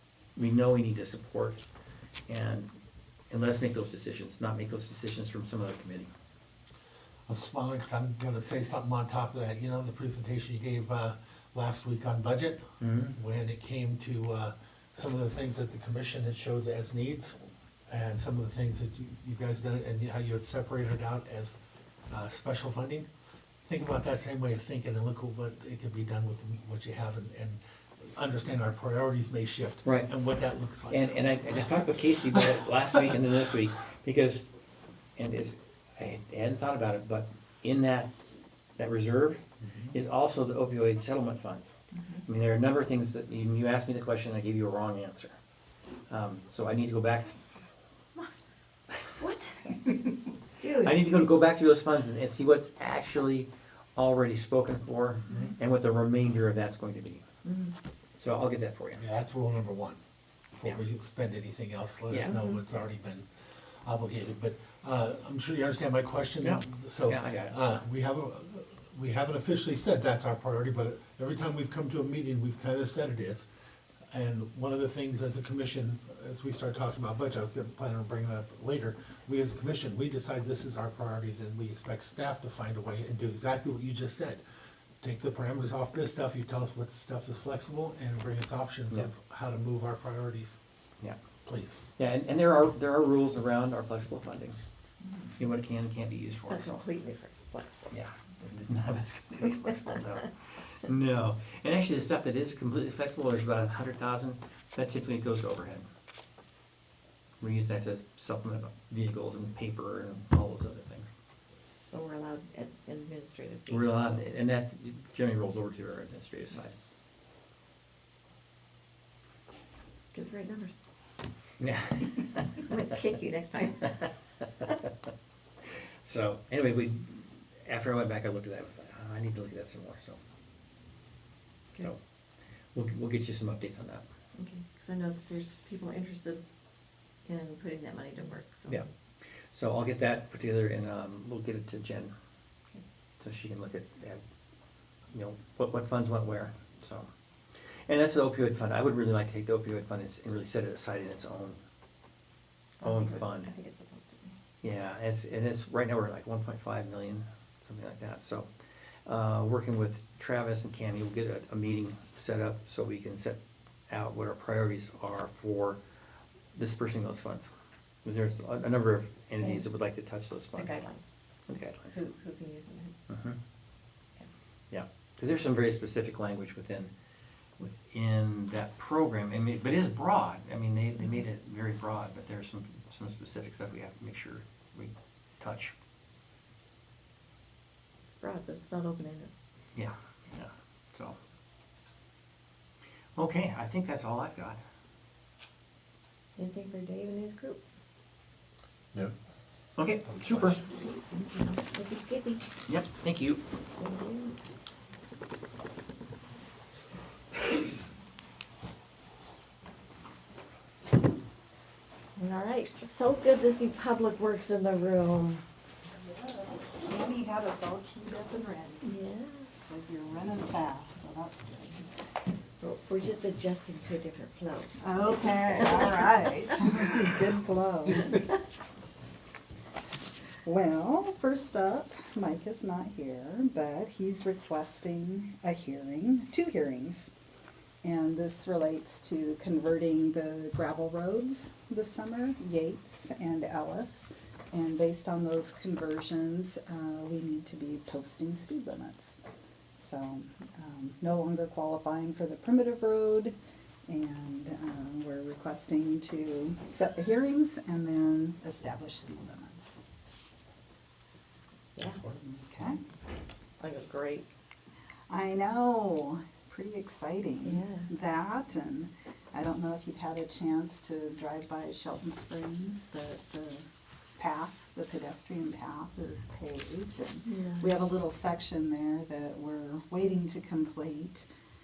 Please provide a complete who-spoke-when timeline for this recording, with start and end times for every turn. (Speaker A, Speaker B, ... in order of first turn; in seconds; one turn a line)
Speaker A: 0.4-1.6
Speaker A: 2.3-2.7
Speaker A: 3.3-6.1
Speaker B: 7.3-21.6
Speaker A: 12.8-13.2
Speaker B: 22.1-23.1
Speaker B: 23.6-31.2
Speaker A: 29.9-30.1
Speaker A: 30.9-34.5
Speaker A: 35.2-38.1
Speaker A: 38.8-45.4
Speaker B: 39.6-40.0
Speaker C: 41.9-42.2
Speaker A: 46.1-47.4
Speaker C: 49.2-51.0
Speaker A: 50.7-57.2
Speaker C: 57.4-57.8
Speaker A: 58.2-59.0
Speaker B: 59.0-60.0
Speaker B: 60.5-63.3
Speaker A: 62.1-62.4
Speaker C: 62.3-62.6
Speaker B: 63.8-73.5
Speaker A: 66.4-67.6
Speaker B: 74.1-84.4
Speaker B: 85.0-90.6
Speaker B: 91.5-91.8
Speaker A: 92.0-94.6
Speaker A: 95.4-96.8
Speaker C: 96.4-97.9
Speaker A: 97.9-105.9
Speaker A: 107.4-111.1
Speaker C: 111.9-114.2
Speaker A: 113.7-116.8
Speaker C: 120.1-120.8
Speaker A: 121.6-122.6
Speaker C: 122.5-124.0
Speaker A: 126.0-130.2
Speaker A: 132.7-134.1
Speaker C: 134.4-136.4
Speaker C: 137.2-138.8
Speaker A: 139.5-142.1
Speaker A: 143.2-144.2
Speaker A: 145.1-151.6
Speaker C: 152.8-154.4
Speaker A: 152.8-153.5
Speaker A: 154.6-158.5
Speaker A: 159.1-165.8
Speaker A: 166.6-167.5
Speaker A: 168.0-170.8
Speaker C: 170.5-171.1
Speaker A: 171.5-172.0
Speaker C: 171.9-172.9
Speaker A: 173.1-173.4
Speaker A: 174.7-176.9
Speaker A: 177.6-185.7
Speaker C: 188.1-189.3
Speaker A: 189.8-191.2
Speaker A: 193.2-194.6
Speaker C: 196.4-197.6
Speaker A: 199.8-200.6
Speaker B: 200.1-200.6
Speaker C: 201.1-202.5
Speaker A: 202.7-203.4
Speaker C: 203.8-204.4
Speaker C: 212.2-215.4
Speaker D: 215.9-218.9
Speaker C: 218.8-219.5
Speaker D: 219.5-221.9
Speaker C: 222.6-226.1
Speaker D: 224.8-228.2
Speaker D: 230.4-237.1
Speaker D: 237.8-249.2
Speaker D: 249.8-253.3
Speaker D: 253.9-259.8
Speaker B: 261.8-262.2
Speaker D: 262.2-262.8
Speaker C: 263.6-264.3
Speaker D: 265.1-281.3
Speaker C: 267.4-267.9
Speaker C: 277.3-277.7